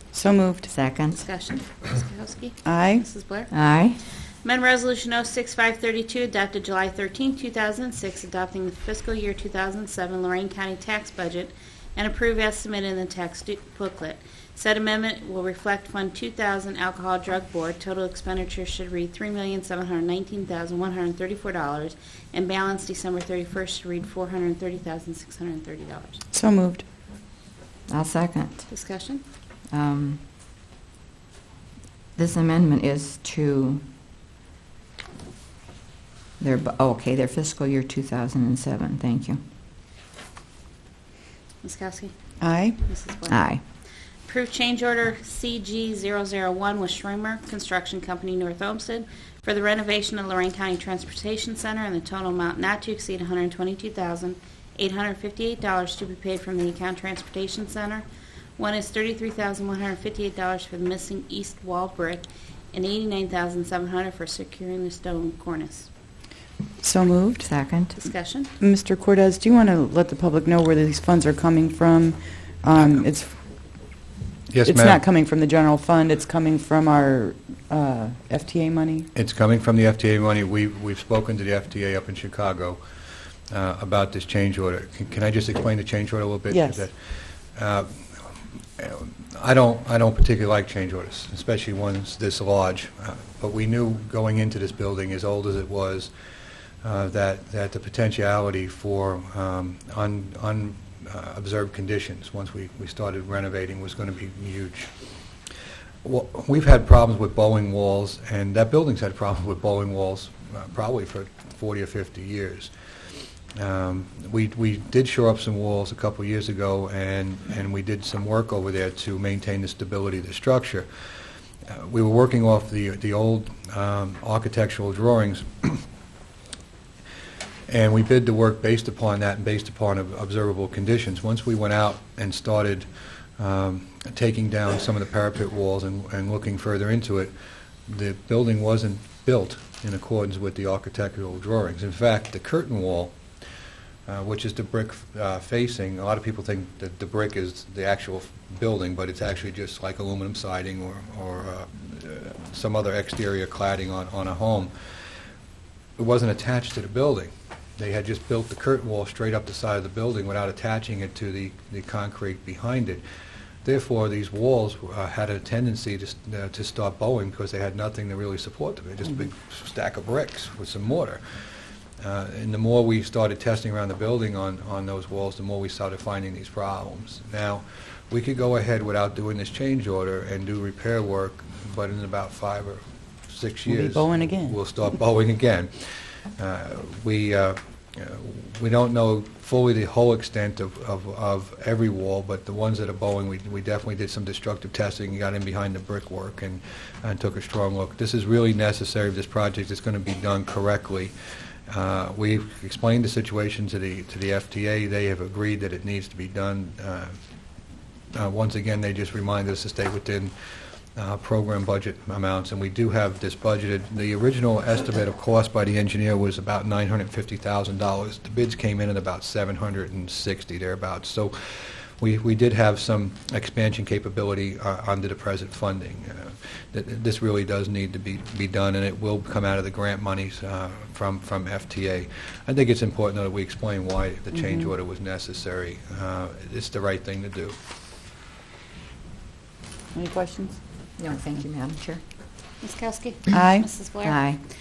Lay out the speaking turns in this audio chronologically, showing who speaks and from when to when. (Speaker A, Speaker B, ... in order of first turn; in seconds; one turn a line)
Speaker A: 0.1-0.7
Speaker B: 0.7-1.2
Speaker C: 1.1-3.5
Speaker A: 2.6-3.0
Speaker B: 3.5-4.0
Speaker C: 4.4-26.2
Speaker A: 26.3-26.9
Speaker B: 27.9-28.7
Speaker C: 28.7-29.2
Speaker B: 29.7-30.2
Speaker B: 32.2-33.8
Speaker B: 36.4-39.4
Speaker C: 41.6-42.1
Speaker A: 42.4-42.8
Speaker C: 42.8-43.4
Speaker B: 43.3-43.6
Speaker C: 44.2-58.1
Speaker C: 58.6-65.9
Speaker A: 66.8-67.5
Speaker B: 67.4-67.9
Speaker C: 67.9-68.5
Speaker A: 68.6-73.3
Speaker D: 72.8-73.0
Speaker D: 74.5-75.0
Speaker A: 74.7-79.1
Speaker D: 79.2-82.8
Speaker D: 83.5-96.1
Speaker A: 86.5-86.8
Speaker D: 96.8-104.9
Speaker D: 106.0-112.7
Speaker D: 113.6-120.9
Speaker D: 121.7-125.8
Speaker D: 127.7-132.8
Speaker D: 133.4-137.3
Speaker D: 137.9-143.1
Speaker D: 144.1-154.7
Speaker D: 156.0-163.0
Speaker D: 163.6-171.2
Speaker D: 172.0-201.1
Speaker A: 183.7-184.6
Speaker D: 201.7-207.1
Speaker D: 208.1-210.3
Speaker D: 210.9-237.6
Speaker A: 234.3-234.7
Speaker A: 239.9-240.6
Speaker B: 241.0-242.0
Speaker C: 242.6-244.2
Speaker A: 243.3-243.7
Speaker B: 244.0-244.4